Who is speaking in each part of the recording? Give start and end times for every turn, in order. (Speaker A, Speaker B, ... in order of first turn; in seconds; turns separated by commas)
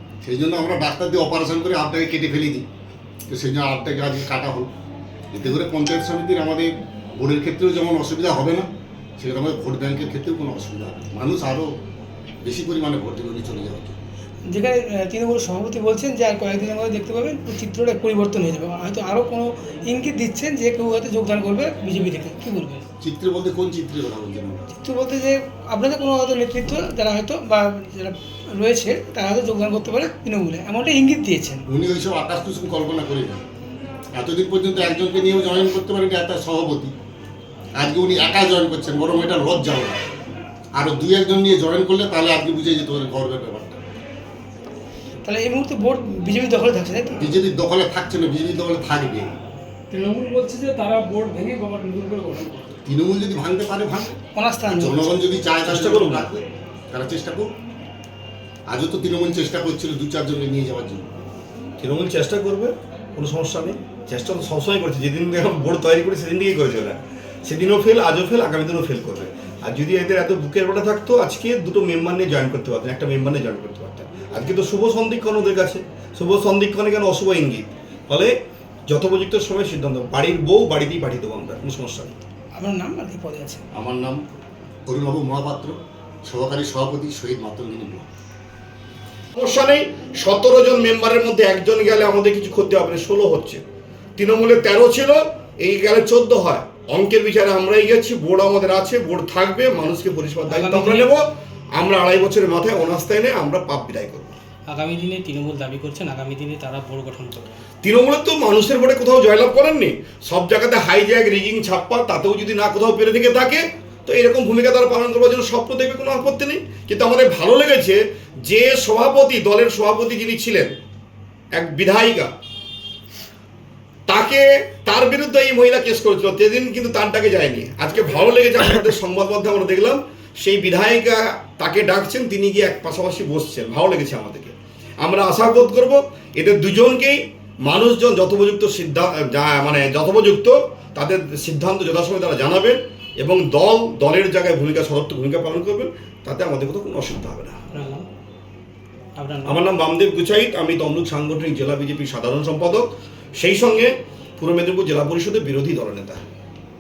Speaker A: 0.2-2.6, Speaker A: 3.3-4.7, Speaker A: 5.3-11.7, Speaker A: 12.4-14.0, Speaker B: 14.5-22.9, Speaker A: 23.0-24.7, Speaker B: 24.8-31.6, Speaker A: 31.7-33.4, Speaker A: 34.1-36.9, Speaker A: 37.8-40.0, Speaker A: 40.8-43.8, Speaker B: 45.2-47.4, Speaker A: 47.2-49.3, Speaker B: 49.9-52.6, Speaker C: 50.0-52.6, Speaker A: 52.9-54.2, Speaker B: 54.4-55.2, Speaker A: 54.7-57.5, Speaker D: 55.6-56.3, Speaker A: 58.7-61.1, Speaker D: 61.8-78.3, Speaker D: 78.9-82.2, Speaker B: 82.5-83.6, Speaker A: 83.7-84.2, Speaker A: 84.9-88.1, Speaker D: 89.3-93.6, Speaker D: 94.2-104.4, Speaker E: 100.5-101.1, Speaker E: 104.7-107.5, Speaker D: 107.8-120.8, Speaker D: 121.5-122.3, Speaker D: 124.1-147.6, Speaker E: 147.7-148.1, Speaker E: 149.2-149.6, Speaker D: 149.4-156.2